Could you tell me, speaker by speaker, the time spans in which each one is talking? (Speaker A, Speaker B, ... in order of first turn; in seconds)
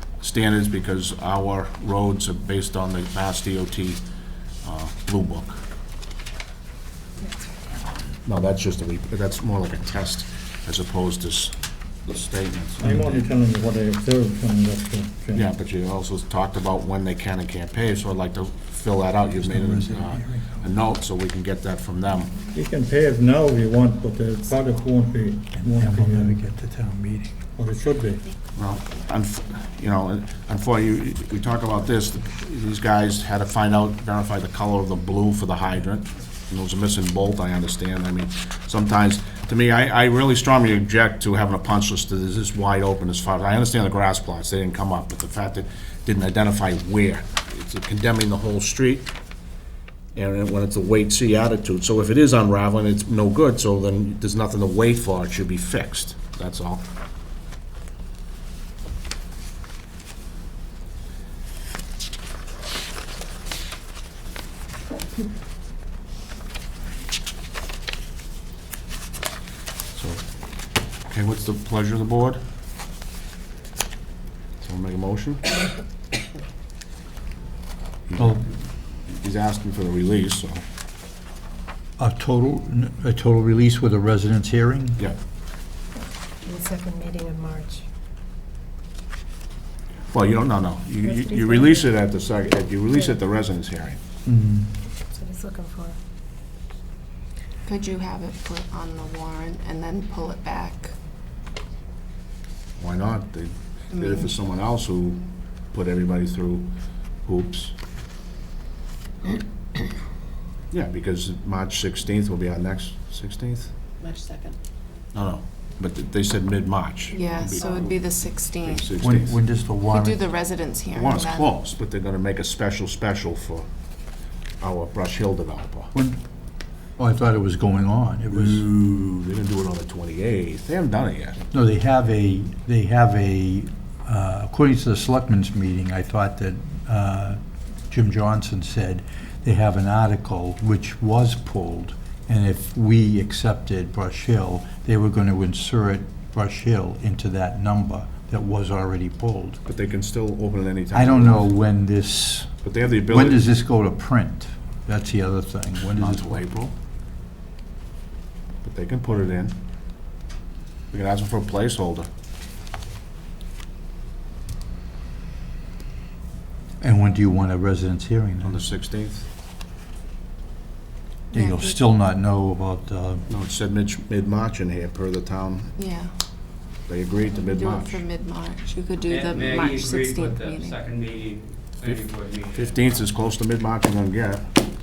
Speaker A: 0.2-4.0, 4.6-5.6, 8.2-13.2, 15.3-22.3, 28.5-49.1, 50.1-56.9, 69.9-70.2, 71.0-72.4, 74.6-75.5, 78.1-80.6, 90.1-94.0, 102.8-106.7, 107.2-107.7, 110.7-113.7, 115.1-119.4, 120.9-123.7, 124.6-125.9, 128.3-131.4, 149.7-151.5, 152.6-153.4, 155.8-156.7, 158.6-159.6, 160.9-162.1, 168.4-169.2, 173.3-175.7, 176.9-178.0, 181.8-184.5
Speaker B: 12.8-15.5, 22.5-26.4, 27.5-28.3
Speaker C: 19.4-20.6, 25.5-27.3, 78.2-78.4, 82.0-85.0, 94.2-94.8, 119.0-120.2, 125.9-126.2, 127.0-128.6, 131.5-149.6, 150.9-156.4, 166.8-168.6, 171.3-173.3
Speaker D: 86.4-87.8, 91.0-91.9, 92.9-93.2, 95.1-96.0
Speaker E: 97.7-100.9, 103.9-104.3, 117.1-118.9, 119.8-121.5, 175.8-176.1, 177.4-180.8
Speaker F: 179.0-182.8